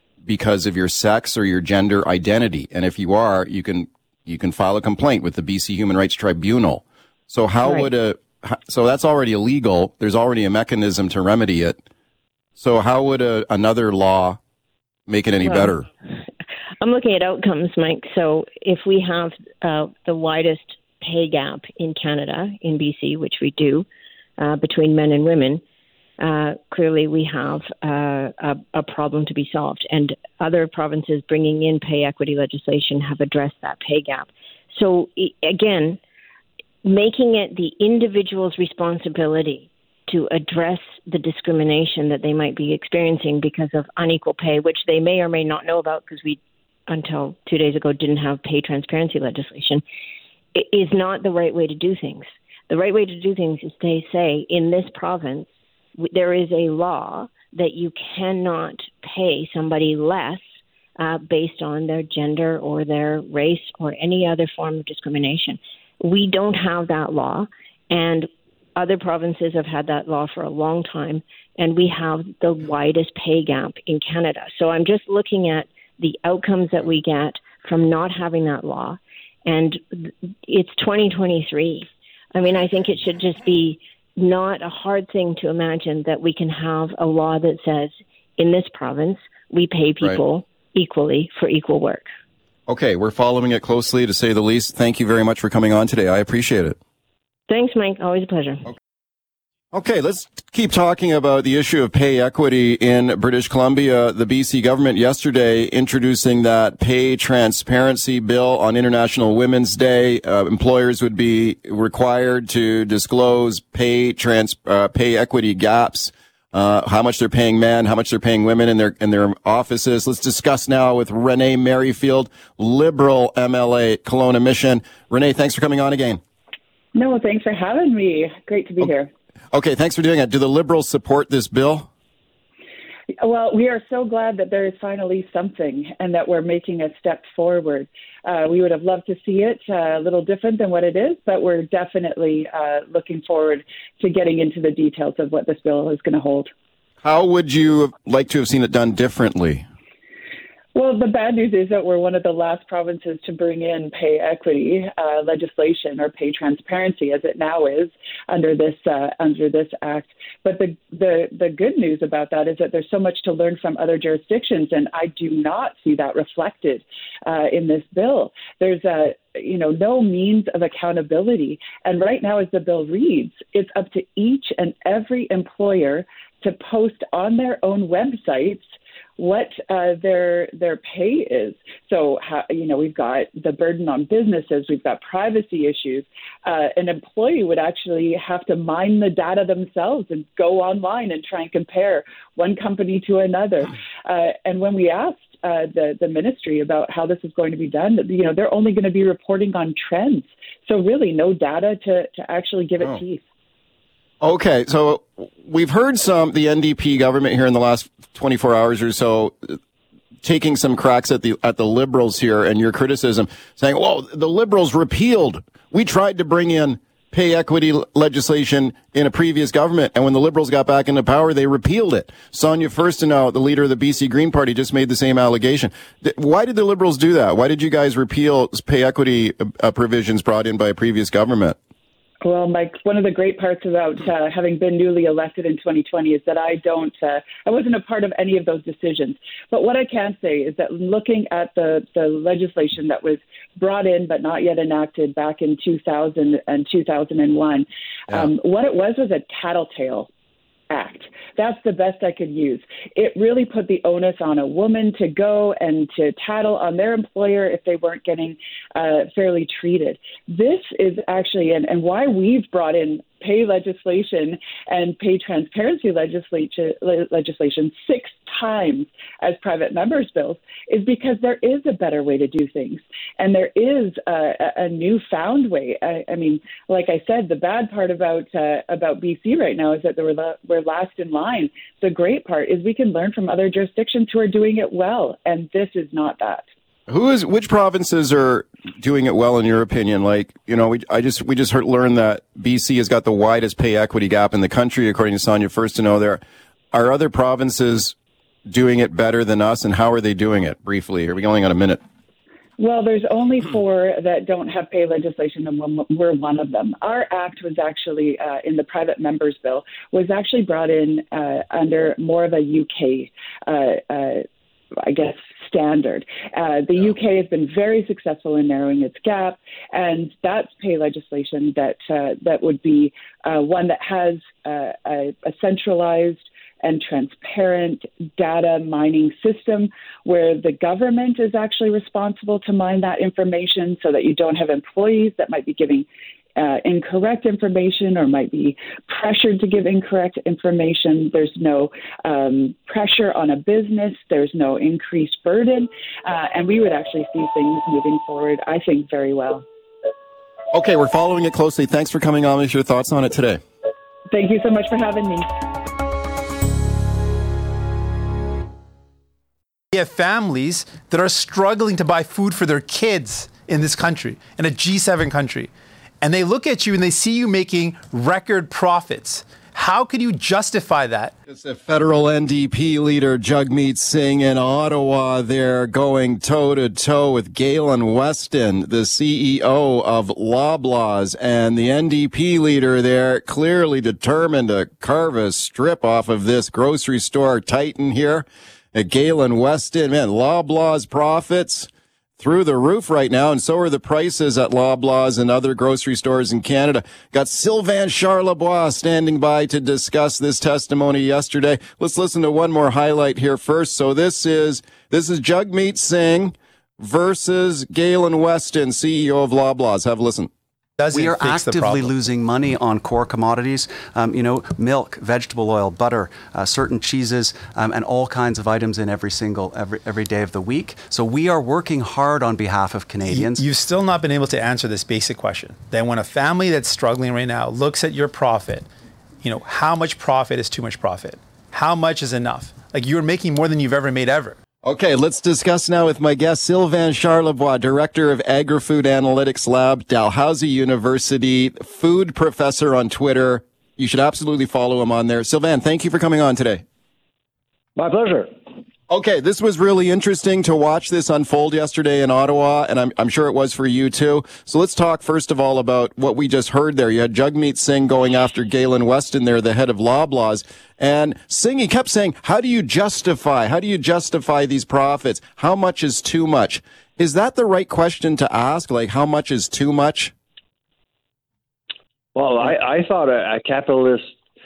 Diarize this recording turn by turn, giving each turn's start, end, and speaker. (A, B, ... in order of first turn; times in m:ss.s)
0:00.2-0:11.8 A
0:07.6-0:07.9 B
0:12.6-0:14.4 A
0:15.1-0:15.9 A
0:15.4-0:15.7 B
0:16.8-0:23.9 B
0:24.4-0:25.6 B
0:26.2-0:36.0 B
0:36.8-0:49.8 B
0:50.6-1:00.4 B
1:01.0-1:32.1 B
1:32.7-1:36.8 A
1:37.5-1:38.6 B
1:39.7-2:06.2 A
2:07.0-2:09.1 C
2:09.5-2:11.9 A
2:13.2-2:26.5 C
2:27.0-2:29.6 A
2:30.8-2:58.6 C
2:59.2-3:23.2 C
3:24.2-3:29.6 A
3:30.2-3:51.6 A
3:52.2-4:10.1 C
4:10.7-4:46.4 C
4:46.9-4:56.2 A
4:56.7-4:58.0 A
4:58.5-5:01.8 A
5:02.6-5:14.2 C
5:14.8-5:35.9 C
5:36.4-5:49.4 C
5:50.5-5:53.4 A
5:54.1-5:55.3 C
5:59.7-6:05.5 D
6:06.0-6:11.1 D
6:11.3-6:50.3 A
6:50.8-6:52.0 D
6:50.9-7:03.4 E
7:03.1-7:08.7 D
7:09.2-7:14.4 D
7:14.6-7:26.6 A
7:27.8-7:28.3 F
7:28.9-7:50.1 A
7:52.2-7:54.1 F